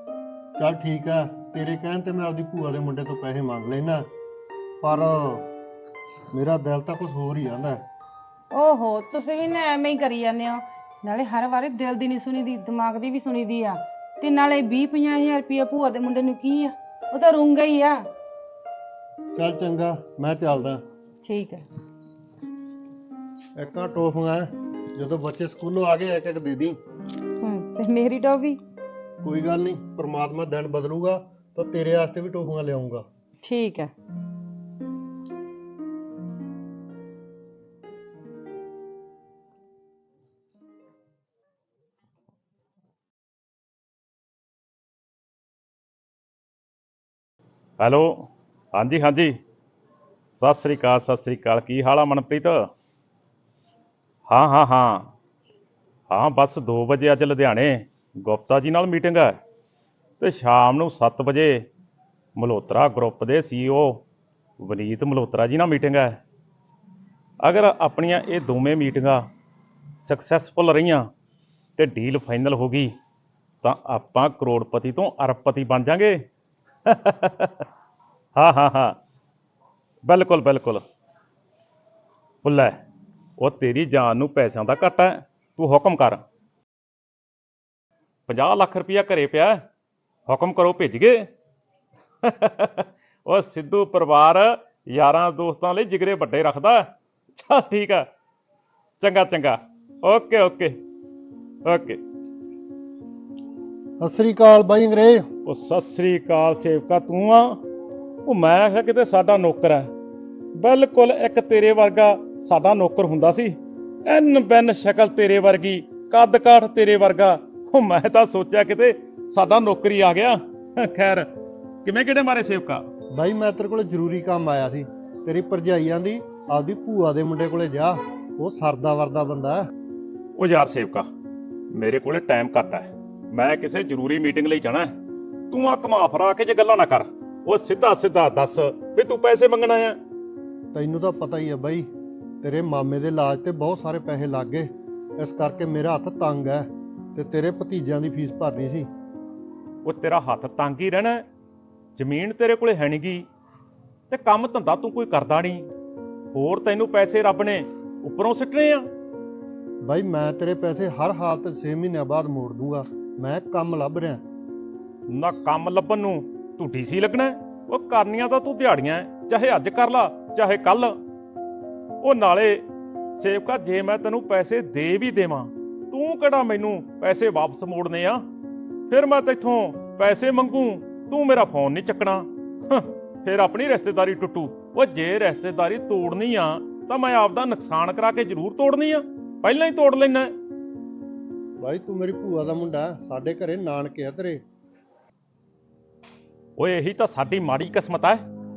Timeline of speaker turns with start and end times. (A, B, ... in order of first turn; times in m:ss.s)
0:00.6-0:04.0 A
0:04.8-0:05.5 A
0:06.3-0:07.8 A
0:08.5-0:18.0 B
0:19.3-0:20.8 A
0:21.2-0:21.6 B
0:23.6-0:26.8 A
0:27.4-0:28.6 B
0:29.2-0:33.0 A
0:33.4-0:33.9 B
0:47.8-0:49.3 C
0:50.3-0:52.6 C
0:54.3-0:55.1 C
0:56.1-0:59.4 C
1:00.2-1:01.6 C
1:02.4-1:04.0 C
1:04.6-1:06.2 C
1:07.4-1:09.3 C
1:10.0-1:11.1 C
1:11.8-1:12.9 C
1:13.6-1:16.2 C
1:16.8-1:17.6 C
1:18.4-1:19.0 C
1:20.0-1:20.8 C
1:22.4-1:22.8 C
1:23.4-1:26.2 C
1:28.3-1:29.6 C
1:30.3-1:31.3 C
1:32.2-1:38.1 C
1:39.0-1:40.8 C
1:41.6-1:42.0 C
1:44.0-1:45.2 A
1:45.4-1:47.6 C
1:48.2-1:49.9 C
1:50.5-2:01.3 C
2:01.8-2:02.8 C
2:03.1-2:09.6 A
2:10.4-2:11.1 C
2:11.7-2:14.9 C
2:15.5-2:20.0 C
2:20.7-2:21.9 A
2:22.4-2:28.9 A
2:29.8-2:31.2 C
2:32.0-2:33.2 C
2:34.1-2:35.7 C
2:36.3-2:38.9 C
2:39.8-2:44.2 A
2:45.1-2:51.0 C
2:52.0-2:52.6 C
2:53.1-2:58.2 C
2:58.9-3:10.3 C
3:11.6-3:14.4 A
3:16.6-3:18.2 C